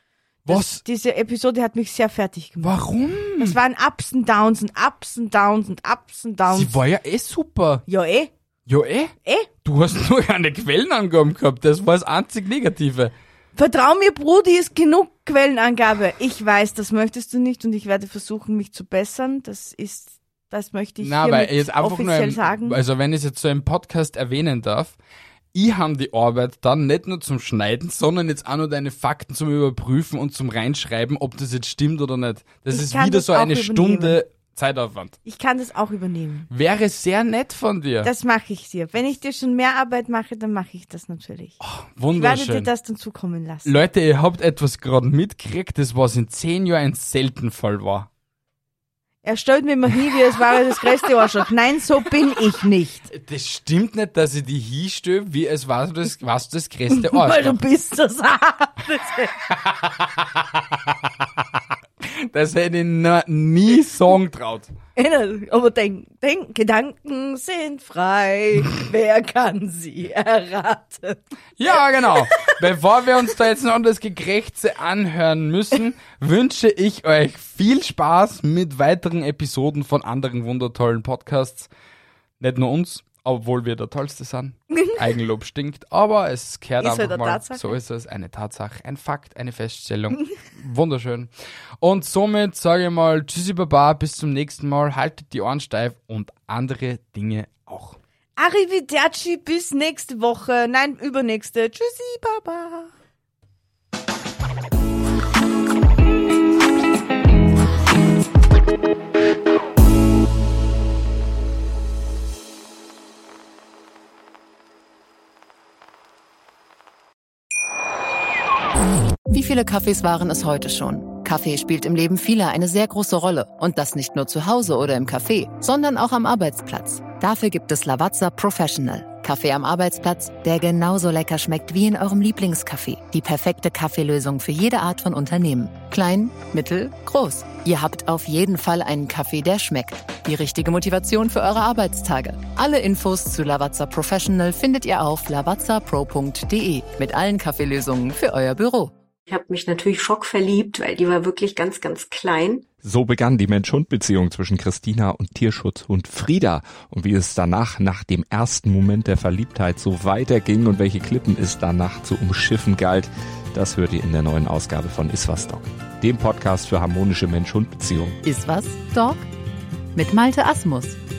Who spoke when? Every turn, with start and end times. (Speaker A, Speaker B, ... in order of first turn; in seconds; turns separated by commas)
Speaker A: 0.4-0.8, Speaker B: 0.5-2.8, Speaker A: 2.6-3.6, Speaker B: 3.4-6.7, Speaker A: 6.5-7.8, Speaker B: 7.9-8.3, Speaker A: 8.7-9.1, Speaker A: 9.6-13.1, Speaker B: 13.5-22.8, Speaker A: 21.0-25.0, Speaker A: 25.5-35.2, Speaker B: 32.7-34.2, Speaker B: 35.2-36.5, Speaker A: 36.5-38.1, Speaker B: 38.0-41.6, Speaker A: 41.6-42.7, Speaker B: 42.1-43.7, Speaker A: 43.6-48.1, Speaker B: 49.2-53.1, Speaker A: 53.1-57.6, Speaker B: 56.9-59.4, Speaker A: 59.5-61.4, Speaker A: 62.0-64.7, Speaker B: 65.0-72.6, Speaker A: 71.6-81.7, Speaker A: 82.4-91.3, Speaker B: 86.8-87.7, Speaker A: 91.8-98.0, Speaker B: 98.4-102.9, Speaker C: 119.3-148.9, Speaker D: 149.3-152.7, Speaker E: 152.8-168.2, Speaker C: 168.2-169.2, Speaker C: 169.9-171.0